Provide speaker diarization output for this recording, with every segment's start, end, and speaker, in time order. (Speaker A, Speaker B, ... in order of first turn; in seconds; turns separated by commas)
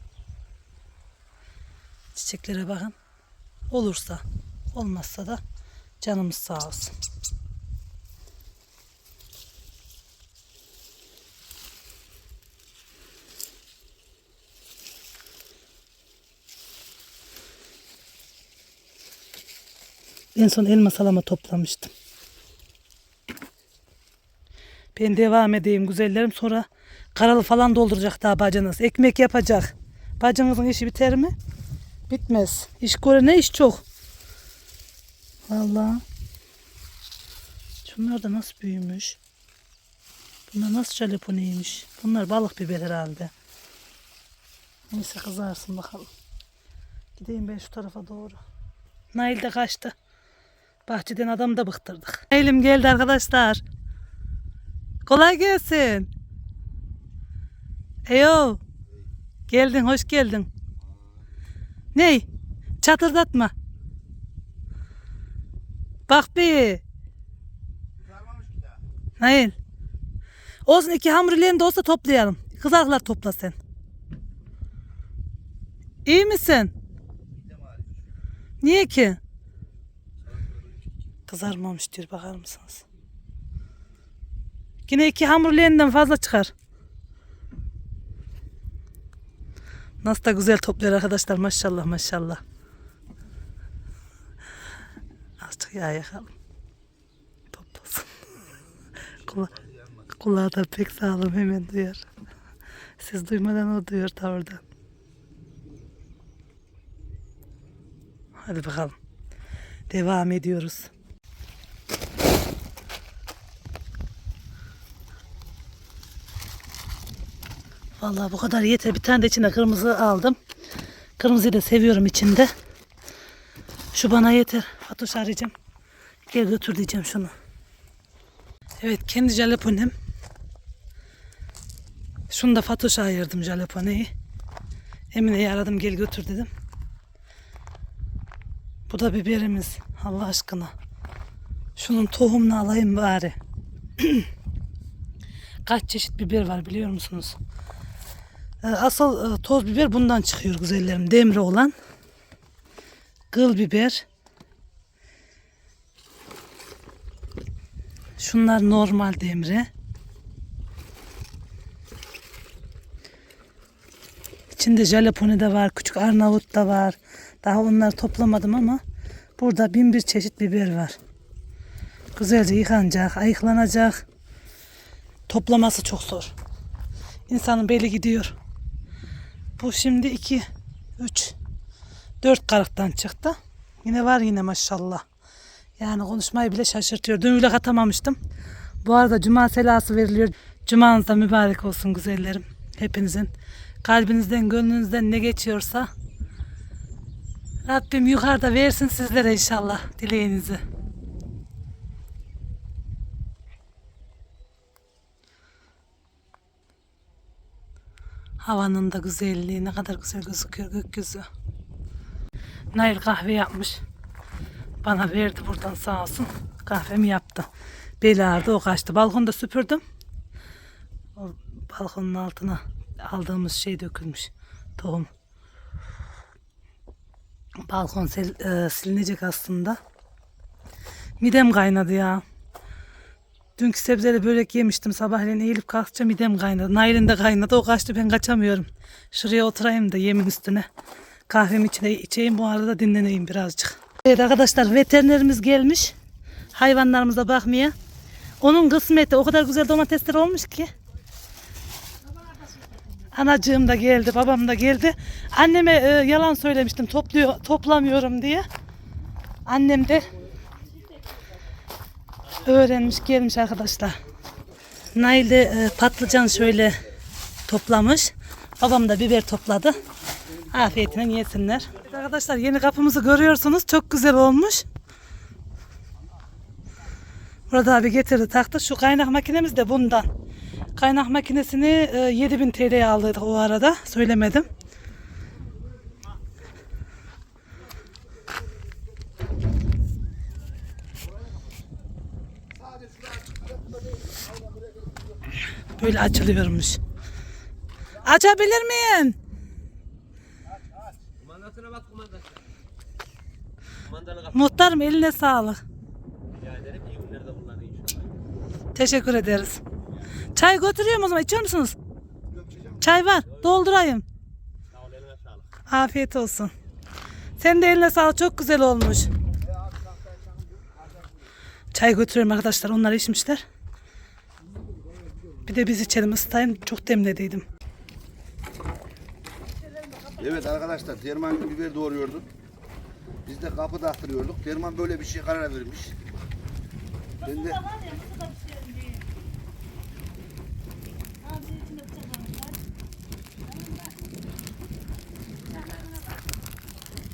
Speaker A: 2.1-2.9, Speaker A: 3.7-5.4, Speaker A: 6.0-6.9, Speaker A: 20.3-21.9, Speaker A: 24.9-31.3, Speaker A: 32.1-33.8, Speaker A: 35.5-36.0, Speaker A: 37.8-39.2, Speaker A: 40.5-43.3, Speaker A: 44.9-46.1, Speaker A: 47.2-48.4, Speaker A: 49.1-49.9, Speaker A: 50.9-53.6, Speaker A: 55.0-56.1, Speaker A: 58.1-58.6, Speaker A: 59.5-60.5, Speaker B: 60.8-61.2, Speaker A: 61.9-62.2, Speaker A: 62.8-63.5, Speaker A: 66.1-66.8, Speaker B: 68.0-68.8, Speaker A: 69.2-69.5, Speaker A: 70.7-73.5, Speaker A: 76.0-76.7, Speaker B: 77.3-78.0, Speaker A: 78.6-79.2, Speaker B: 80.3-80.7, Speaker A: 81.3-82.8, Speaker A: 84.9-86.5, Speaker A: 90.0-92.4, Speaker A: 95.4-96.3, Speaker A: 97.5-98.2, Speaker B: 99.2-100.1, Speaker A: 99.2-99.5, Speaker A: 100.2-102.0, Speaker A: 103.0-104.6, Speaker A: 108.4-109.0, Speaker A: 109.9-110.9, Speaker A: 118.0-120.4, Speaker A: 121.2-122.5, Speaker A: 123.9-125.5, Speaker A: 126.3-127.3, Speaker A: 128.8-129.9, Speaker A: 132.3-134.1, Speaker A: 135.1-136.5, Speaker A: 138.9-140.7, Speaker A: 141.8-143.4, Speaker A: 144.0-144.3, Speaker A: 145.7-147.3, Speaker A: 148.6-151.7, Speaker A: 153.3-154.0, Speaker A: 158.2-159.7, Speaker A: 164.5-168.8, Speaker A: 169.4-170.9, Speaker A: 172.2-174.0, Speaker A: 175.3-176.3, Speaker A: 177.3-178.3, Speaker A: 179.6-180.4, Speaker A: 181.0-181.3, Speaker A: 182.2-185.0, Speaker A: 185.8-188.2, Speaker A: 188.8-193.3, Speaker A: 193.8-195.9, Speaker A: 197.7-200.6, Speaker A: 208.4-211.3, Speaker A: 212.7-213.8, Speaker A: 214.8-217.5, Speaker A: 218.0-219.8, Speaker A: 221.2-225.1, Speaker A: 227.7-229.8, Speaker A: 231.2-232.2, Speaker A: 233.6-240.7, Speaker A: 241.3-245.9, Speaker A: 246.5-247.7, Speaker A: 248.4-250.7, Speaker A: 253.1-258.4, Speaker A: 259.4-260.1, Speaker A: 262.4-264.0, Speaker A: 264.9-266.8, Speaker B: 265.5-266.8, Speaker A: 267.5-269.8, Speaker B: 270.2-270.9, Speaker A: 270.5-274.6, Speaker A: 277.5-280.1, Speaker A: 280.8-284.5, Speaker B: 292.6-294.0, Speaker A: 295.8-296.8, Speaker A: 298.0-299.1, Speaker C: 301.6-302.4, Speaker C: 303.9-304.3, Speaker A: 304.3-305.6, Speaker C: 306.4-308.1, Speaker A: 308.7-309.6, Speaker A: 310.3-311.7, Speaker B: 312.3-312.8, Speaker A: 312.8-314.0, Speaker A: 315.7-316.5, Speaker A: 317.4-319.1, Speaker B: 319.6-320.9, Speaker A: 321.7-323.4, Speaker A: 325.4-327.4, Speaker A: 329.9-330.3, Speaker B: 330.2-332.3, Speaker B: 333.2-335.9, Speaker A: 337.2-339.0, Speaker B: 337.2-337.6, Speaker A: 341.2-342.6, Speaker C: 343.6-343.9, Speaker C: 345.5-346.2